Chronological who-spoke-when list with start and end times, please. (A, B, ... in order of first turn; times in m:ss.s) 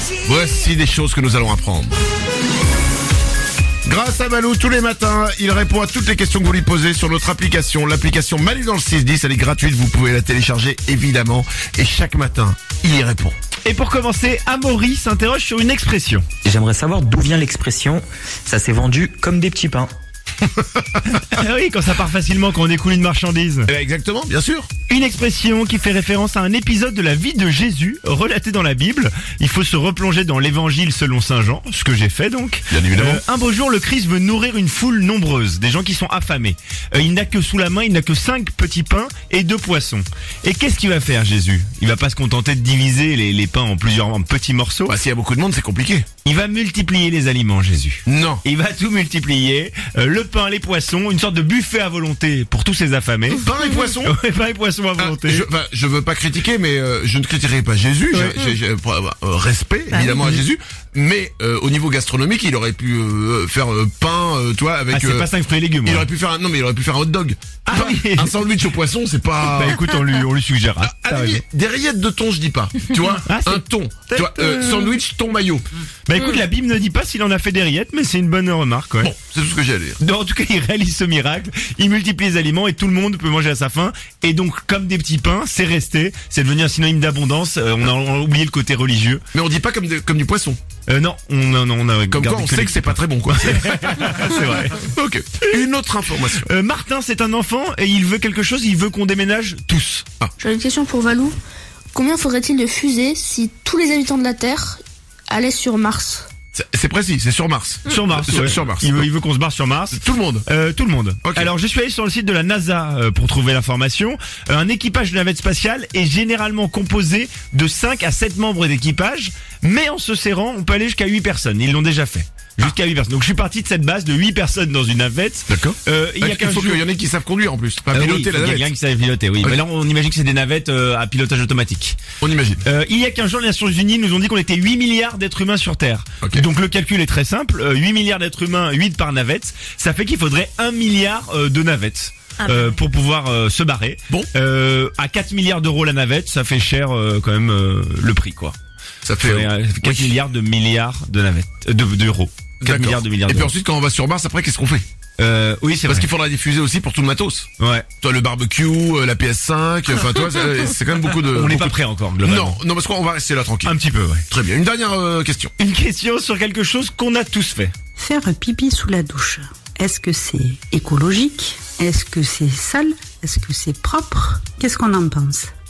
0:00.2-0:01.9 A
0:03.8-0:13.4 A
0:13.6-0:16.3 B
0:16.4-0:19.9 C
0:21.1-0:23.7 B
0:23.7-0:24.7 A
0:24.9-0:44.9 B
0:32.7-0:33.2 A
0:44.9-0:46.1 A
0:46.2-0:53.4 B
0:48.0-0:48.4 A
0:53.4-0:54.1 A
0:54.0-0:55.4 B
0:55.0-1:05.3 A
0:58.1-0:58.4 B
1:00.0-1:00.4 B
1:04.9-1:06.1 B
1:05.8-1:09.8 A
1:07.6-1:08.3 B
1:09.5-1:11.4 B
1:10.8-1:15.6 A
1:13.2-1:14.6 B
1:16.1-1:19.1 B
1:19.0-1:20.0 A
1:20.0-1:29.2 B
1:29.3-1:30.6 A
1:30.9-1:34.9 B
1:32.1-1:36.5 A
1:36.3-1:40.0 B
1:40.4-1:41.4 D
1:41.9-1:46.3 D
1:46.5-1:49.1 A
1:47.9-2:06.8 B
1:49.9-1:50.5 A
1:51.2-1:51.5 A
2:05.5-2:08.7 A
2:07.9-2:12.0 B
2:12.2-2:12.6 A
2:12.6-2:28.6 B
2:29.0-2:30.1 A
2:29.2-2:33.5 B
2:32.6-2:34.8 A
2:35.2-2:36.1 B
2:35.8-2:37.5 A
2:37.6-2:37.8 B
2:38.0-2:43.7 A
2:41.3-2:42.6 B
2:43.6-2:44.2 B
2:44.3-2:45.5 A
2:45.6-2:47.7 B
2:48.0-2:55.5 E